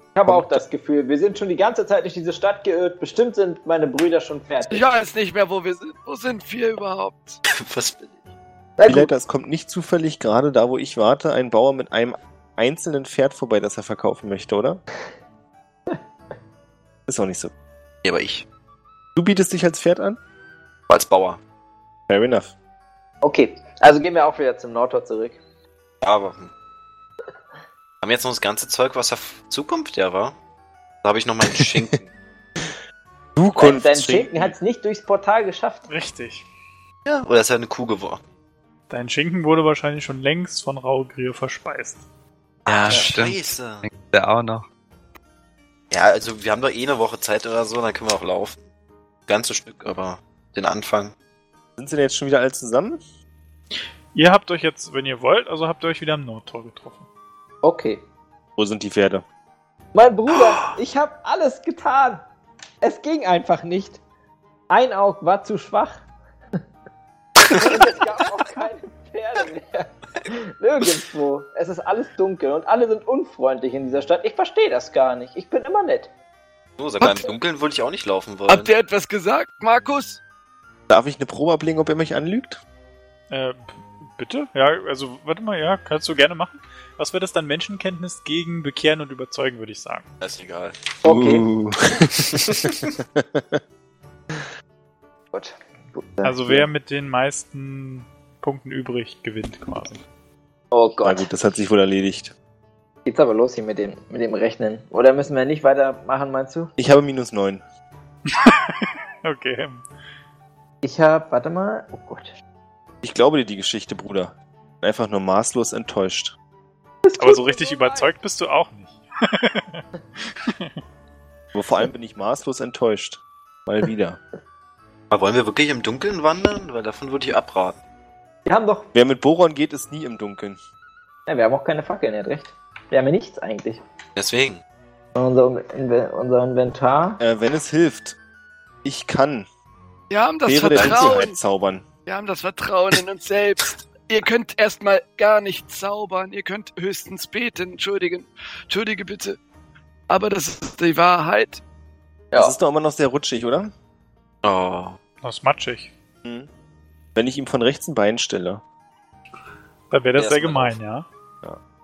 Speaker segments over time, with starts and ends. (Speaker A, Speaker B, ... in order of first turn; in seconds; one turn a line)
Speaker A: 0.1-4.8
Speaker B: 0.3-0.6
Speaker C: 4.7-7.4
Speaker D: 7.5-8.2
Speaker A: 8.8-9.1
Speaker B: 8.8-14.8
Speaker B: 17.1-17.5
Speaker D: 18.0-18.4
Speaker B: 19.1-20.2
Speaker D: 20.9-21.4
Speaker B: 22.1-22.5
Speaker A: 23.2-25.4
Speaker D: 26.0-26.5
Speaker D: 28.0-30.4
Speaker D: 31.0-32.1
Speaker B: 31.5-31.8
Speaker B: 33.4-34.5
Speaker A: 33.6-35.9
Speaker E: 35.9-36.5
Speaker D: 37.0-38.2
Speaker E: 38.9-42.0
Speaker D: 42.6-43.9
Speaker F: 42.7-44.6
Speaker D: 45.9-48.6
Speaker D: 49.3-51.1
Speaker B: 51.8-53.0
Speaker E: 54.1-57.0
Speaker A: 57.6-58.0
Speaker B: 58.6-59.2
Speaker A: 59.9-62.2
Speaker A: 62.8-64.0
Speaker A: 64.7-66.0
Speaker A: 67.5-76.1
Speaker D: 76.8-78.7
Speaker C: 77.0-77.3
Speaker C: 78.5-80.2
Speaker B: 80.9-82.6
Speaker E: 83.3-90.0
Speaker D: 90.2-90.8
Speaker A: 91.0-91.5
Speaker B: 91.0-93.6
Speaker D: 92.3-92.9
Speaker A: 95.3-96.7
Speaker E: 96.2-100.0
Speaker A: 100.7-101.3
Speaker B: 101.0-102.3
Speaker A: 103.0-106.7
Speaker B: 106.8-107.6
Speaker E: 108.3-109.8
Speaker A: 110.8-112.3
Speaker B: 113.0-116.3
Speaker A: 117.0-118.1
Speaker E: 117.2-120.7
Speaker B: 121.5-124.2
Speaker D: 125.1-127.8
Speaker A: 128.4-128.9
Speaker B: 128.9-130.6
Speaker A: 131.3-133.8
Speaker D: 134.2-134.6
Speaker A: 135.1-137.2
Speaker B: 137.2-138.2
Speaker B: 138.8-139.5
Speaker C: 140.1-141.4
Speaker B: 140.4-141.8
Speaker D: 140.7-141.1
Speaker C: 142.1-149.4
Speaker C: 150.1-151.6
Speaker B: 152.3-153.7
Speaker D: 154.4-155.0
Speaker E: 155.2-155.9
Speaker B: 156.2-156.5
Speaker B: 157.1-158.6
Speaker E: 159.9-161.1
Speaker D: 160.2-160.8